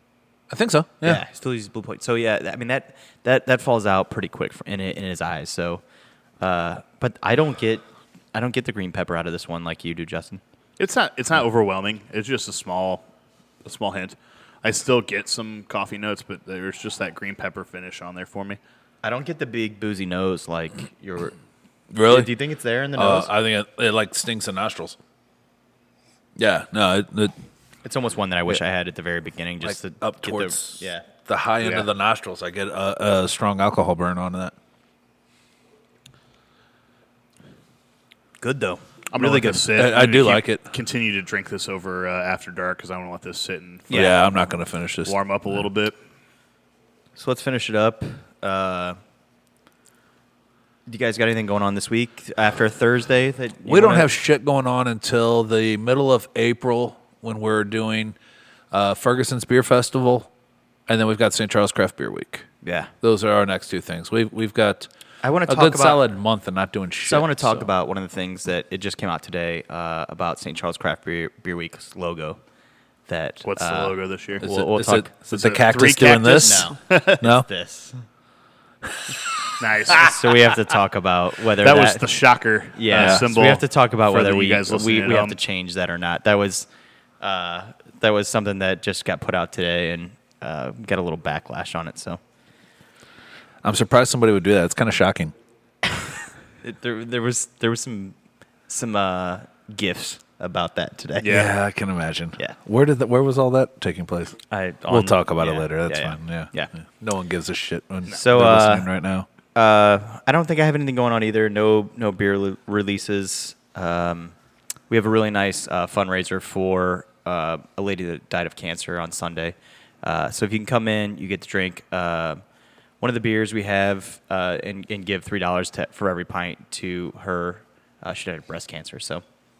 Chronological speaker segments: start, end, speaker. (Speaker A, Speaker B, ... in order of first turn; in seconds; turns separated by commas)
Speaker A: 0.5-1.2, Speaker B: 1.0-5.8, Speaker B: 6.4-7.8, Speaker B: 8.3-10.4, Speaker C: 10.8-13.0, Speaker C: 13.6-18.6, Speaker B: 19.0-21.3, Speaker A: 21.9-22.3, Speaker B: 22.0-23.3, Speaker A: 23.0-25.0, Speaker A: 26.4-27.3, Speaker B: 27.8-31.1, Speaker A: 29.6-34.5, Speaker C: 31.6-31.9, Speaker B: 38.4-39.5, Speaker C: 39.1-44.3, Speaker A: 39.2-40.7, Speaker B: 43.9-44.3, Speaker A: 43.9-45.2, Speaker C: 45.0-46.0, Speaker B: 47.1-49.0, Speaker B: 50.9-54.1, Speaker A: 53.6-58.1, Speaker A: 58.7-60.3, Speaker A: 60.9-62.5, Speaker B: 62.6-62.9, Speaker A: 63.0-64.9, Speaker B: 65.2-66.0, Speaker A: 65.5-67.7, Speaker B: 67.0-72.4, Speaker B: 73.1-75.1, Speaker C: 73.4-74.4, Speaker A: 74.4-77.5, Speaker C: 75.3-77.2, Speaker B: 76.4-78.0, Speaker C: 79.6-80.6, Speaker B: 79.9-82.0, Speaker C: 81.6-85.4, Speaker B: 82.7-86.7, Speaker A: 82.9-83.2, Speaker B: 87.2-92.2, Speaker A: 93.6-95.3, Speaker B: 96.6-98.1, Speaker B: 98.7-101.4, Speaker C: 101.2-101.5, Speaker A: 101.2-109.3, Speaker B: 104.5-106.7, Speaker B: 108.1-108.9, Speaker B: 109.5-114.3, Speaker B: 114.9-122.4, Speaker B: 123.0-129.2